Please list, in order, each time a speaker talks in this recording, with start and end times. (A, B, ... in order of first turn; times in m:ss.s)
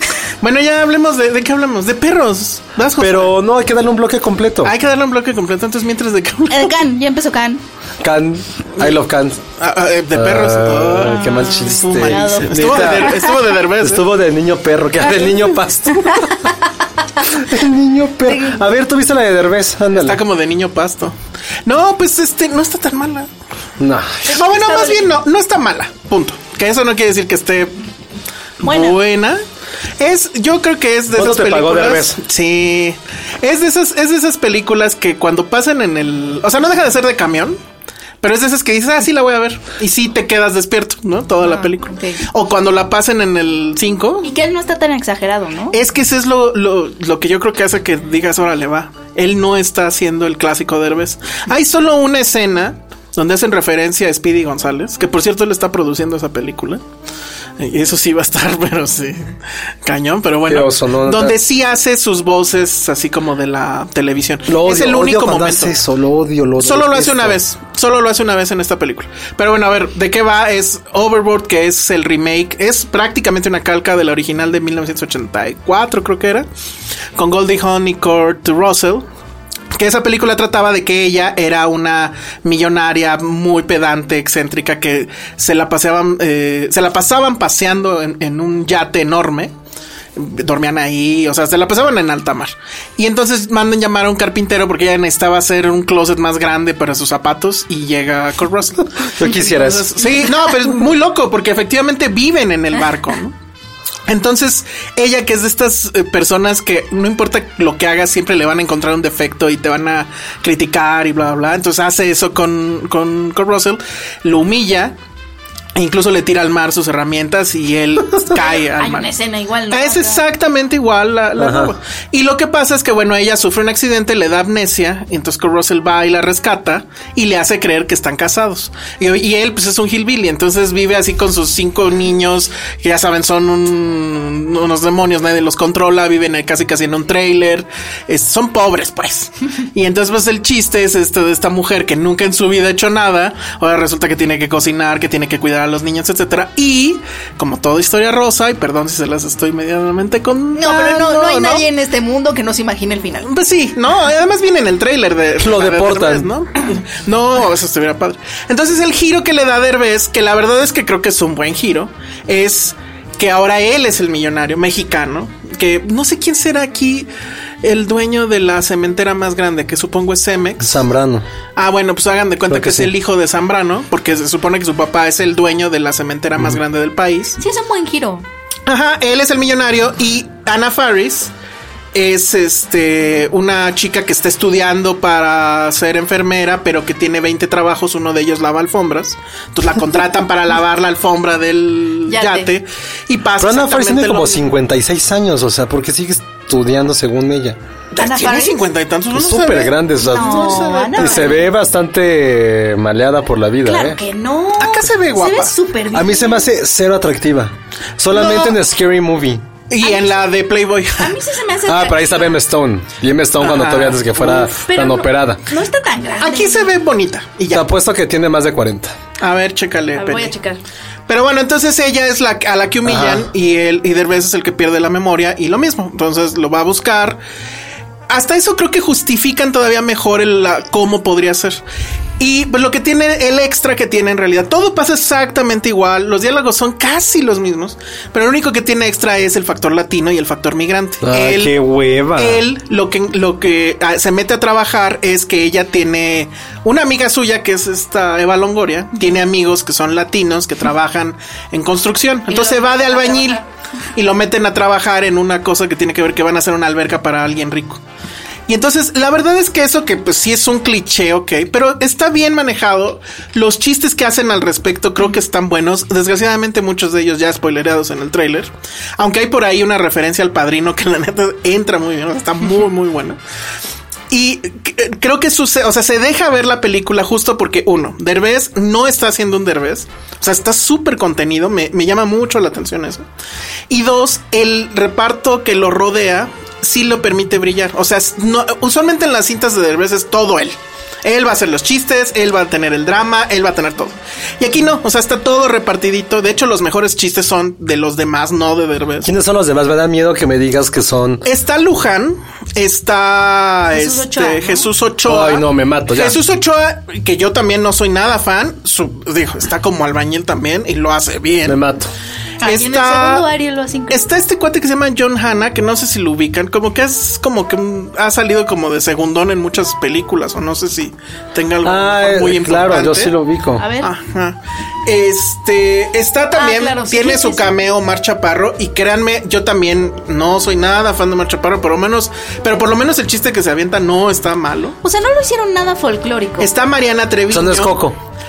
0:00.4-0:03.3 A
0:03.0-0:04.8 B
0:04.6-0:06.8 A
0:06.5-0:07.6 C
0:08.0-0:09.4 B
0:09.6-0:14.1 A
0:10.1-0:13.3 B
0:11.3-0:13.4 C
0:13.8-0:16.2 B
0:15.1-0:15.4 A
0:16.0-0:17.2 C
0:17.3-0:20.2 B
0:18.3-0:18.6 C
0:20.0-0:23.3 A
0:23.8-0:24.4 B
0:24.3-0:25.2 C
0:24.3-0:27.8 A
0:28.6-0:29.4 A
0:28.6-0:29.0 C
0:30.0-0:37.6 A
0:31.1-0:32.2 B
0:38.2-0:44.3 A
0:41.4-0:42.2 C
0:44.2-0:45.8 C
0:45.7-0:56.8 A
0:57.6-0:59.3 A
0:59.8-1:05.8 A
1:00.5-1:01.4 B
1:04.5-1:07.4 B
1:06.6-1:16.5 A
1:17.2-1:19.1 A
1:19.7-1:29.5 A
1:30.2-1:43.4 A
1:39.2-1:40.0 B
1:44.1-1:55.0 A
1:55.8-1:59.1 A
1:58.5-2:00.2 C
1:59.7-2:31.6 A
2:01.4-2:01.7 B
2:30.6-2:33.3 C
2:33.2-2:47.1 A
2:35.4-2:36.3 B
2:47.6-2:50.8 A
2:50.6-2:51.3 B
2:51.6-2:57.4 A
2:52.5-2:52.9 B
2:57.4-2:58.2 C
2:58.7-3:01.3 A
3:01.9-3:14.5 A
3:12.1-3:12.5 C
3:13.4-3:17.6 B
3:18.0-3:21.4 A
3:18.0-3:18.6 C
3:19.1-3:24.0 B
3:20.0-3:21.4 C
3:23.6-3:26.5 C
3:24.6-3:25.6 A
3:25.9-3:29.5 B
3:28.2-3:28.5 A
3:29.7-3:31.2 A
3:29.8-3:30.3 C
3:31.0-3:32.3 C
3:31.7-3:35.4 B
3:33.4-3:34.5 A
3:34.6-3:36.7 C
3:36.2-3:37.7 A
3:37.5-3:39.0 B
3:39.2-3:40.4 A
3:40.0-3:40.6 C
3:41.1-3:47.2 A
3:42.8-3:43.3 B
3:48.1-3:51.6 A
3:52.2-4:01.5 A
4:01.0-4:02.4 B
4:02.2-4:13.4 A
4:12.3-4:13.4 C
4:14.0-4:17.8 A
4:18.5-4:33.2 A
4:34.1-4:43.1 A
4:43.7-4:59.1 A
4:59.0-5:01.2 B
5:01.2-5:11.6 A
5:03.7-5:04.7 C
5:05.0-5:06.2 B
5:11.4-5:11.9 B
5:12.4-5:14.0 C
5:12.4-5:13.3 A
5:13.9-5:23.1 A
5:21.6-5:23.7 B
5:23.6-5:23.9 C
5:23.8-5:34.8 A
5:26.4-5:27.6 C
5:34.8-5:36.5 C
5:36.4-5:37.8 A
5:37.3-5:38.0 B